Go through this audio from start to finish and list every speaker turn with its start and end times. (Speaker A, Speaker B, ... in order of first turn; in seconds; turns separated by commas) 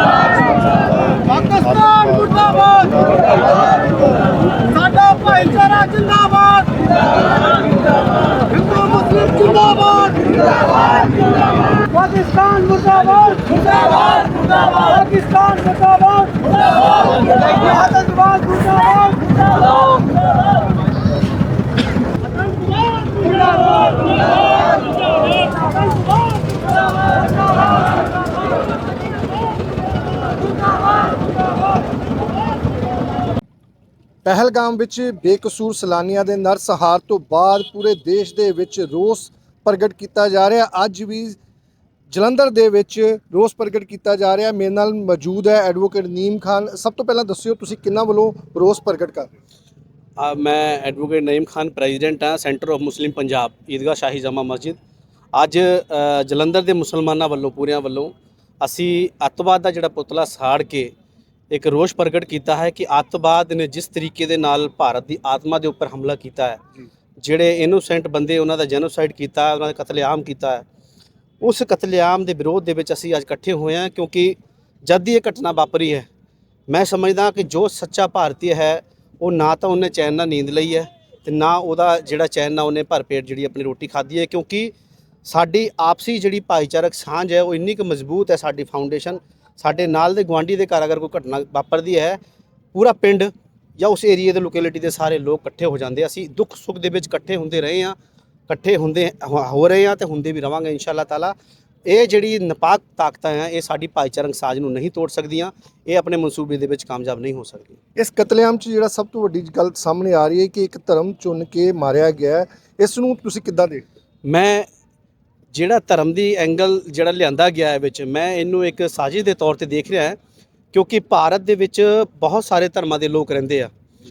Speaker A: 1.3-2.8, Speaker B: 2.4-2.8, Speaker B: 4.7-6.7, Speaker A: 5.7-6.5, Speaker B: 8.5-10.3, Speaker A: 9.6-10.1, Speaker B: 11.9-16.6, Speaker B: 17.6-19.3, Speaker B: 23.2-23.6, Speaker C: 34.2-41.4, Speaker C: 42.1-49.3, Speaker A: 50.2-54.8, Speaker A: 55.3-60.9, Speaker A: 61.5-66.6, Speaker A: 67.2-70.7, Speaker A: 71.4-76.1, Speaker A: 76.7-84.7, Speaker A: 85.2-92.2, Speaker A: 92.7-98.0, Speaker A: 98.5-101.3, Speaker A: 101.9-107.8, Speaker C: 108.0-113.8, Speaker A: 114.3-114.7, Speaker A: 115.5-120.2, Speaker A: 120.7-123.7